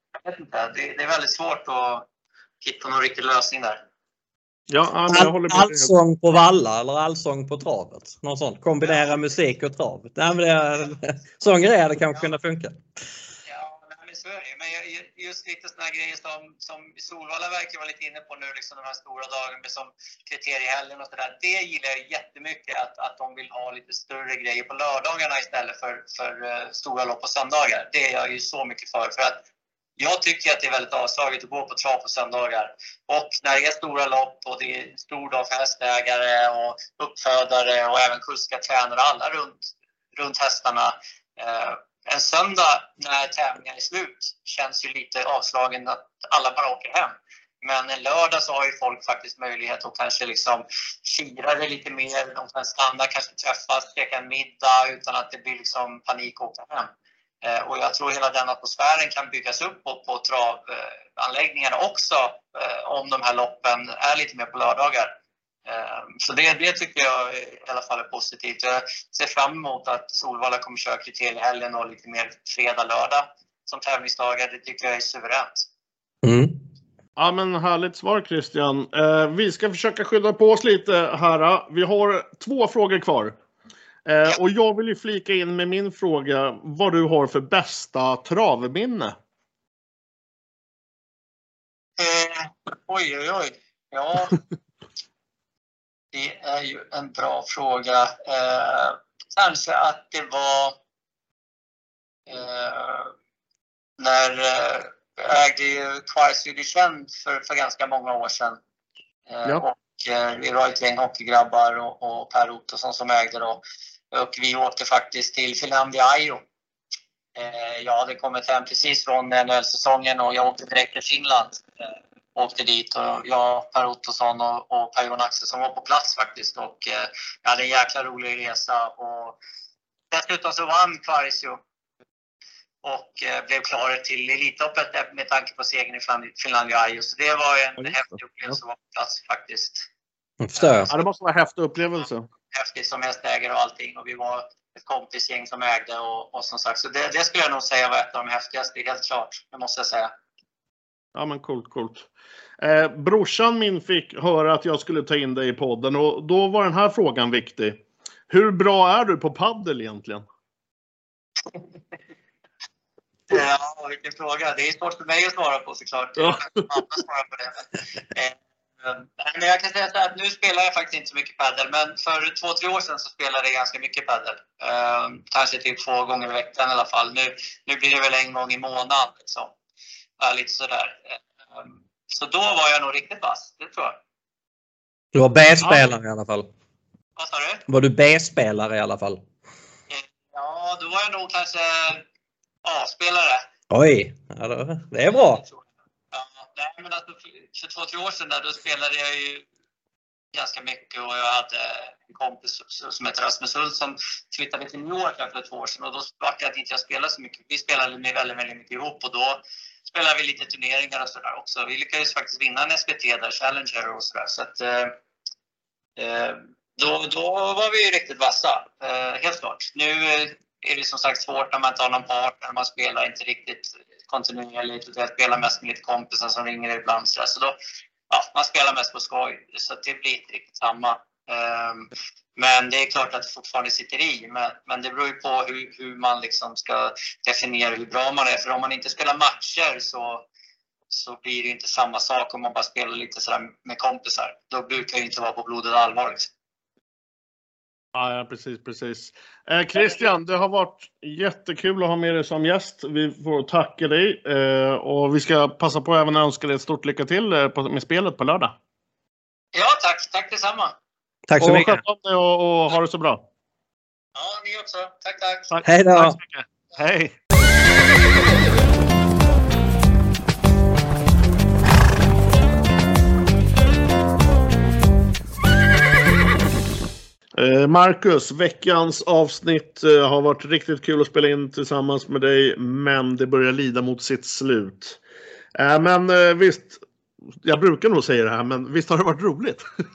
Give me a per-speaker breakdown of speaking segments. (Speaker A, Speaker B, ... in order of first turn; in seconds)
Speaker A: 0.2-2.1, 2.6-3.8, 13.5-29.4, 30.0-56.9, 57.4-65.1, 65.7-75.7, 92.0-94.4, 96.1-100.8, 102.3-103.1, 104.0-108.6, 109.3-116.4, 117.4-121.7, 122.3-129.4, 130.1-131.6, 132.8-139.9, 140.6-141.0, 142.5-150.1, 163.3-179.5, 180.2-184.0, 187.2-187.6, 189.9-192.0, 192.6-193.5, 195.1-195.6, 196.1-199.4, 200.3-214.9, 216.0-227.5, 228.1-240.2, 240.9-246.3, 259.5-260.7, 264.1-265.5
Speaker B: 4.7-5.9, 77.2-83.3, 84.1-89.2, 140.9-142.3, 151.2-152.1, 152.6-160.2, 166.2-166.4, 247.9-258.5, 261.4-263.2, 265.5-267.1, 277.4-285.0, 285.6-286.8, 287.4-289.6
Speaker C: 5.1-12.8, 76.2-76.6, 140.4-140.9, 185.2-186.5, 187.7-189.2, 193.7-195.4, 261.3-261.8, 265.6-266.2